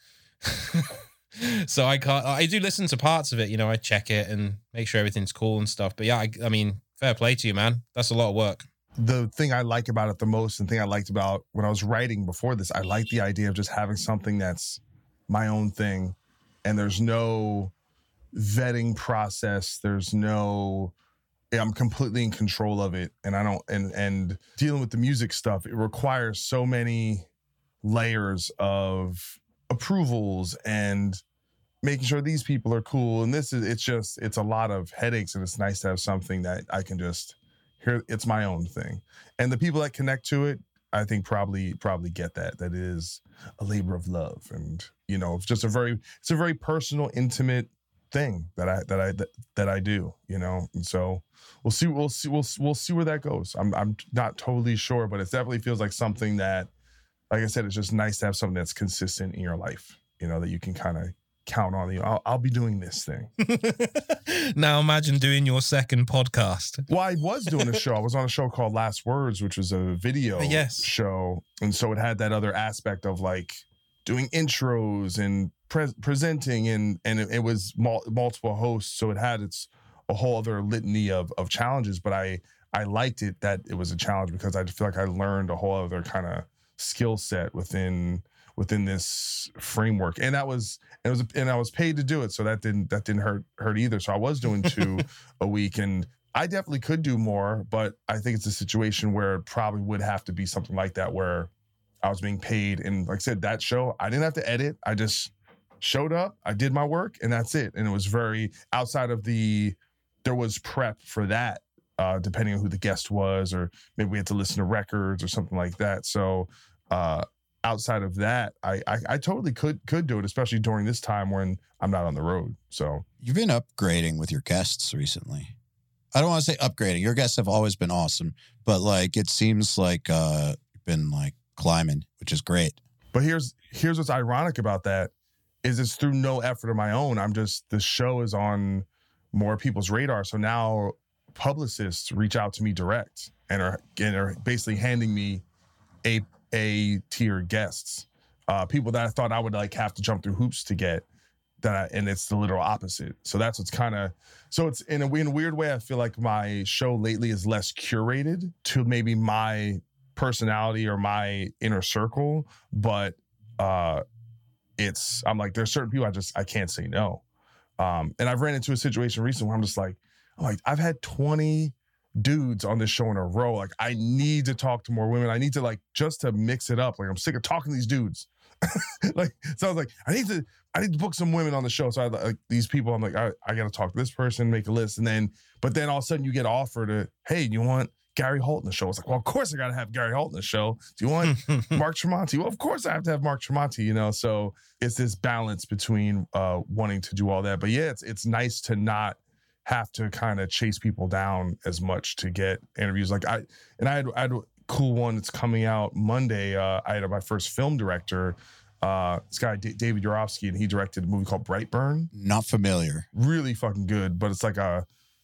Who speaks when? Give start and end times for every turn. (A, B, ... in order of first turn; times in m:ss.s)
0:00.4-0:08.7 A
0:09.0-0:17.7 B
0:18.3-0:20.9 B
0:21.5-0:27.3 B
0:27.8-0:31.2 B
0:31.8-0:56.7 B
0:57.3-1:03.3 B
1:03.4-1:06.9 A
1:06.9-1:41.5 B
1:10.4-1:10.9 A
1:42.0-2:03.0 B
2:03.2-2:05.5 C
2:06.1-2:12.8 C
2:13.1-2:15.1 B
2:15.6-2:25.4 B
2:26.0-2:31.0 B
2:31.6-2:44.0 B
2:44.8-2:47.2 B
2:47.8-3:32.1 B
3:32.1-3:33.1 C
3:33.1-3:34.8 B